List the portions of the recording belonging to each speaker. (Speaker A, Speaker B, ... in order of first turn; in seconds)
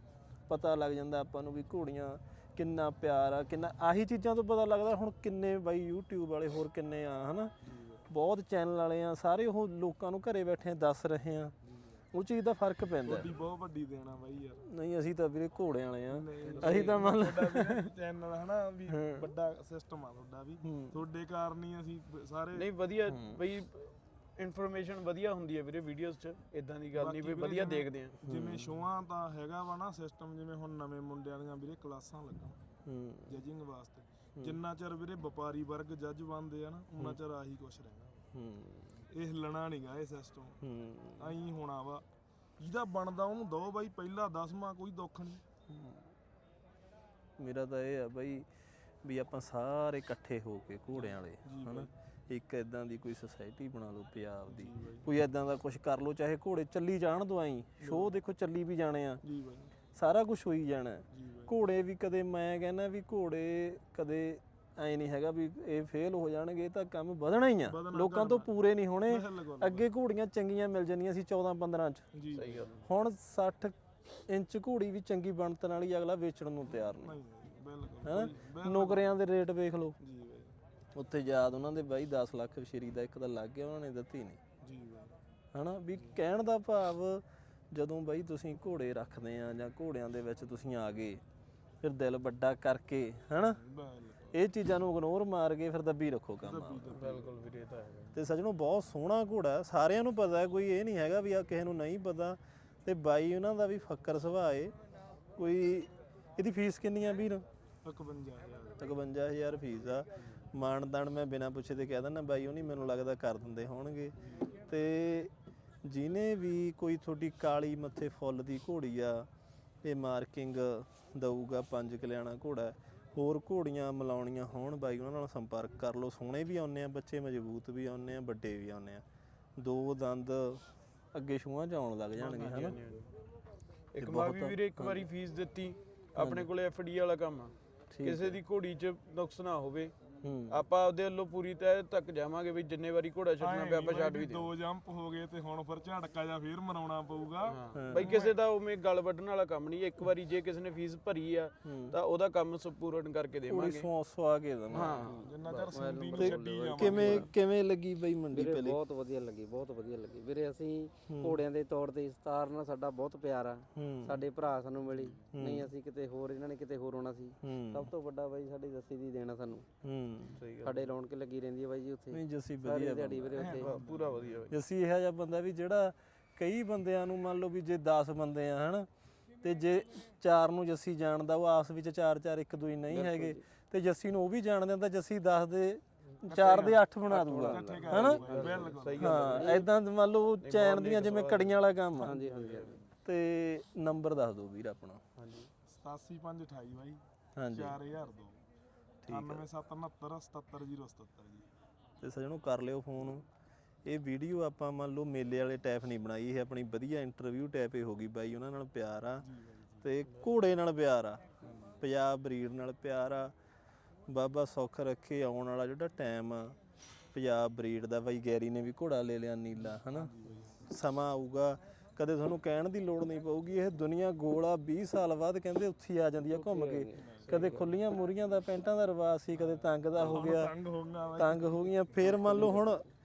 Speaker A: 0.5-7.5, 8.1-11.5, 12.1-13.3, 14.7-17.9, 18.9-19.3, 20.6-21.0, 23.1-23.4, 28.2-28.8, 32.9-33.4, 38.3-39.0, 40.6-41.3, 45.7-46.1, 47.4-48.5, 49.0-59.2, 59.9-72.0, 72.8-77.2, 78.0-80.0, 81.0-84.4, 85.5-91.2, 91.8-93.6, 94.3-97.0, 98.1-104.7, 105.4-107.4, 108.8-114.1, 114.7-115.3, 115.8-119.3, 119.8-129.0, 129.6-132.8, 134.0-135.1, 136.2-136.5, 137.9-138.4, 140.2-140.6, 147.7-148.1, 151.6-152.0, 153.5-155.1, 156.2-158.8, 161.1-161.4, 163.8-164.2, 165.3-165.7, 167.4-167.9, 169.8-170.4, 172.1-173.6, 174.5-178.9, 179.4-188.3, 189.0-192.2, 193.0-195.0, 197.4-197.8, 199.1-199.5, 202.0-203.2, 203.9-209.2, 209.8-211.2, 211.8-213.3, 214.1-216.6, 217.1-220.1, 220.7-230.5, 231.2-232.9
Speaker B: 7.6-8.0, 11.6-12.0, 13.0-14.6, 16.1-22.7, 26.9-32.6, 33.3-38.3, 39.1-40.6, 41.2-42.0, 42.6-45.4, 50.9-51.9, 54.5-55.1, 57.8-58.1, 59.2-59.8, 61.1-61.5, 67.7-68.5, 69.1-69.9, 72.1-72.9, 76.6-79.0, 80.0-80.6, 84.6-85.2, 93.5-94.4, 96.4-97.4, 107.8-108.8, 114.2-114.5, 143.4-148.4, 155.2-157.3, 173.3-174.5, 186.3-189.3, 192.0-192.6, 195.7-198.4, 199.1-201.5, 209.2-209.8, 211.4-211.8, 219.6-220.6, 227.0-227.6, 229.3-231.8
Speaker C: 16.4-17.1, 22.5-28.2, 72.3-72.8, 96.9-98.2, 132.2-133.1, 133.9-139.9, 140.5-144.5, 147.5-153.9, 154.7-155.8, 170.3-170.9, 173.4-174.6, 188.7-189.7, 190.4-191.6, 192.1-192.8, 195.2-195.5
Speaker D: 155.0-157.3, 158.3-169.7, 170.6-173.8, 182.9-183.5, 187.1-189.7, 192.1-192.8, 226.2-227.7, 232.2-232.9